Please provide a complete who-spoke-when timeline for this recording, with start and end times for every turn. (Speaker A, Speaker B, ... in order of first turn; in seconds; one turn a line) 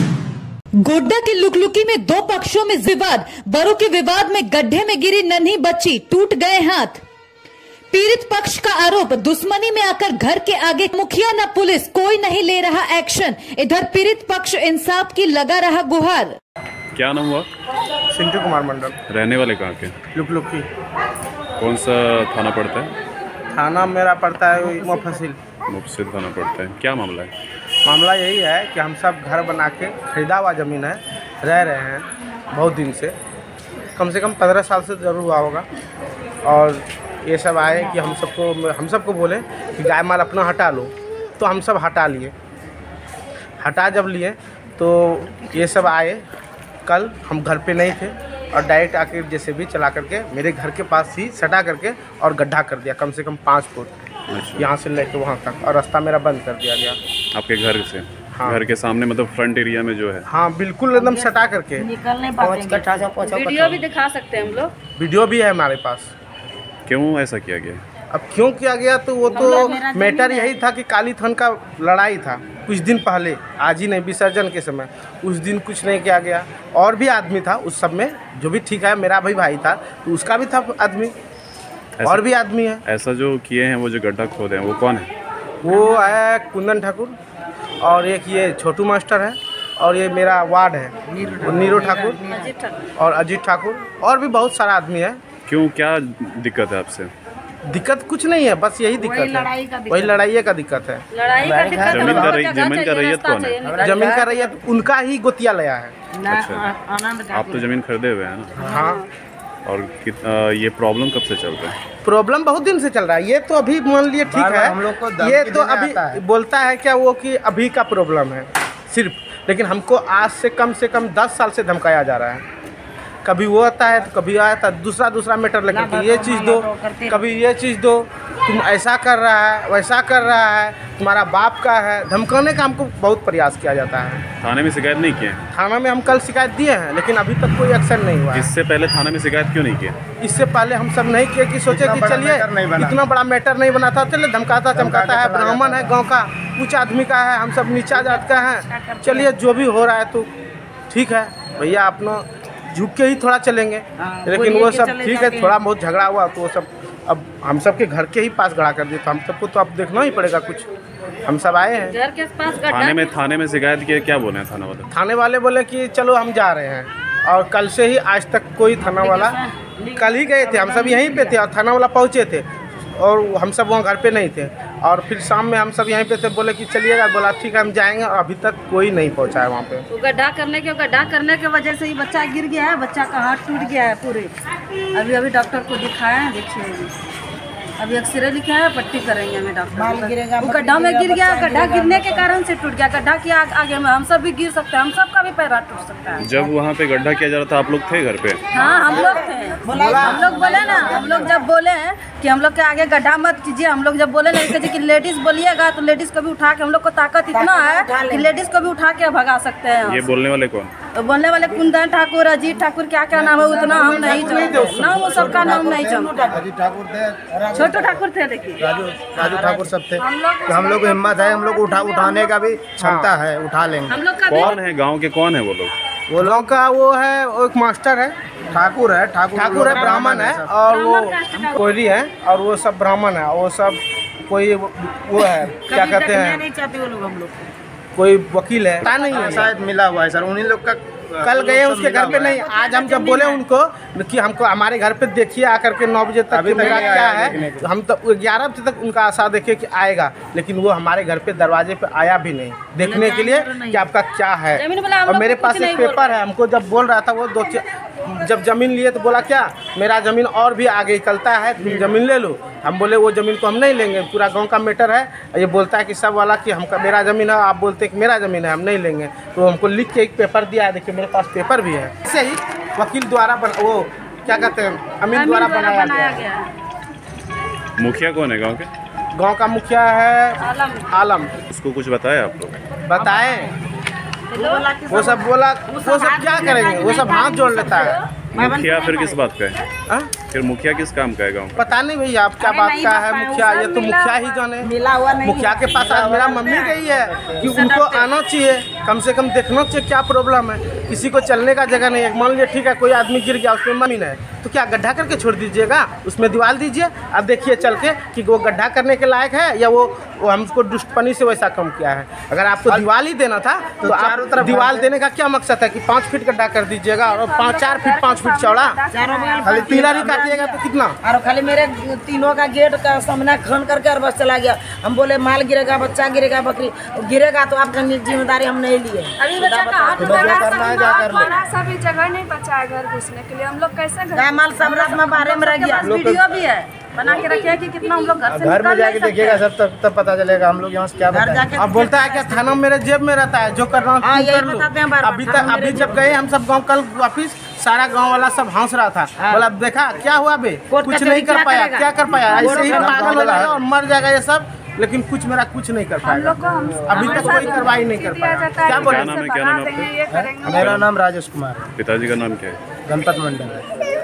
Speaker A: 0.8-7.0
Speaker A: 7.9-16.4
Speaker B: 16.9-17.5
Speaker C: 18.1-19.0
Speaker B: 19.1-19.9
Speaker C: 20.1-20.7
Speaker B: 21.6-22.9
Speaker C: 23.5-25.4
Speaker B: 25.7-27.3
Speaker C: 27.8-33.1
Speaker C: 34.0-35.7
Speaker C: 36.4-42.3
Speaker C: 43.6-46.2
Speaker C: 46.9-53.9
Speaker B: 54.3-54.7
Speaker C: 54.5-57.0
Speaker B: 57.3-60.2
Speaker C: 58.3-58.6
Speaker C: 60.3-61.9
Speaker D: 60.9-63.1
Speaker E: 62.4-63.8
Speaker F: 63.2-64.7
Speaker C: 65.0-66.1
Speaker B: 66.9-67.8
Speaker C: 68.1-81.1
Speaker D: 69.2-70.6
Speaker F: 69.3-69.8
Speaker B: 82.0-82.2
Speaker C: 82.0-82.8
Speaker B: 82.8-85.1
Speaker C: 85.6-87.2
Speaker D: 85.8-86.1
Speaker C: 87.8-92.2
Speaker D: 91.1-92.5
Speaker F: 92.2-92.8
Speaker C: 93.0-95.2
Speaker B: 95.5-97.1
Speaker C: 97.6-101.0
Speaker D: 98.9-100.2
Speaker F: 101.1-104.3
Speaker E: 101.4-102.4
Speaker D: 101.6-101.9
Speaker B: 101.9-103.6
Speaker C: 102.0-102.3
Speaker D: 103.6-104.6
Speaker C: 103.8-106.0
Speaker D: 106.1-107.6
Speaker B: 106.3-106.7
Speaker B: 107.3-108.7
Speaker F: 108.6-109.1
Speaker C: 108.6-109.0
Speaker B: 109.6-111.8
Speaker C: 112.0-122.4
Speaker E: 114.3-116.2
Speaker C: 123.2-134.2
Speaker D: 125.7-127.4
Speaker B: 134.4-135.4
Speaker C: 135.5-138.5
Speaker B: 138.3-140.0
Speaker C: 140.2-150.3
Speaker E: 141.7-143.0
Speaker E: 144.7-146.0
Speaker D: 147.9-149.3
Speaker C: 150.9-160.7
Speaker D: 154.0-155.6
Speaker C: 161.2-161.9
Speaker F: 161.9-163.1
Speaker B: 162.6-164.9
Speaker C: 164.9-169.4
Speaker D: 168.9-171.3
Speaker C: 169.9-179.8
Speaker F: 179.9-184.3
Speaker F: 184.9-186.9
Speaker F: 187.8-196.3
Speaker D: 189.7-192.3
Speaker B: 196.2-198.5
Speaker F: 198.5-210.1
Speaker D: 198.7-201.4
Speaker C: 199.7-201.0
Speaker D: 207.3-208.3
Speaker B: 209.8-210.7
Speaker F: 210.9-216.3
Speaker C: 213.3-215.8
Speaker D: 213.4-216.4
Speaker E: 214.2-217.8
Speaker D: 217.4-218.0
Speaker F: 217.5-218.7
Speaker E: 218.6-224.0
Speaker D: 219.1-219.7
Speaker F: 220.0-222.1
Speaker G: 221.3-222.3
Speaker C: 222.8-223.1
Speaker F: 223.9-224.6
Speaker B: 224.3-225.7
Speaker E: 226.1-226.5
Speaker C: 226.2-228.1
Speaker E: 228.5-230.6
Speaker C: 229.3-236.4
Speaker D: 229.6-230.2
Speaker F: 230.7-231.7
Speaker D: 235.2-237.5
Speaker C: 237.9-239.5
Speaker E: 238.8-242.4
Speaker C: 241.2-276.2
Speaker D: 242.3-243.4
Speaker E: 246.3-247.7
Speaker F: 246.6-247.1
Speaker D: 252.8-253.9
Speaker F: 254.5-256.2
Speaker D: 261.6-261.9
Speaker F: 275.1-276.5
Speaker B: 277.8-278.7
Speaker C: 279.1-281.3
Speaker F: 280.4-280.9
Speaker B: 281.5-282.6
Speaker C: 282.9-283.5
Speaker D: 282.9-283.5
Speaker D: 284.3-289.2
Speaker F: 284.3-284.7
Speaker C: 284.9-288.0
Speaker F: 286.6-288.1
Speaker B: 288.3-289.7
Speaker C: 289.9-290.1
Speaker B: 290.3-291.8
Speaker C: 291.6-294.7
Speaker D: 292.4-293.5
Speaker F: 292.9-294.4
Speaker D: 294.6-296.7
Speaker C: 295.2-318.8
Speaker E: 295.8-297.6
Speaker F: 297.5-298.1
Speaker E: 313.8-314.9
Speaker G: 317.0-320.2
Speaker D: 318.9-330.2
Speaker F: 319.3-319.6
Speaker E: 319.4-320.3
Speaker C: 319.6-321.0
Speaker F: 329.2-331.3
Speaker E: 329.9-331.4
Speaker G: 330.2-335.0
Speaker D: 334.1-336.2
Speaker F: 334.8-339.4
Speaker E: 335.8-336.2
Speaker E: 338.3-341.5
Speaker D: 341.1-342.6
Speaker C: 341.5-356.4
Speaker D: 344.0-346.1
Speaker D: 349.2-349.5
Speaker D: 350.7-353.5
Speaker G: 352.3-352.6
Speaker E: 352.3-353.6
Speaker G: 356.0-360.7
Speaker D: 356.9-357.8
Speaker C: 356.9-359.1
Speaker B: 357.1-357.4
Speaker B: 358.6-359.9
Speaker E: 360.1-361.7
Speaker B: 360.4-360.9
Speaker B: 361.8-362.6
Speaker E: 362.9-363.6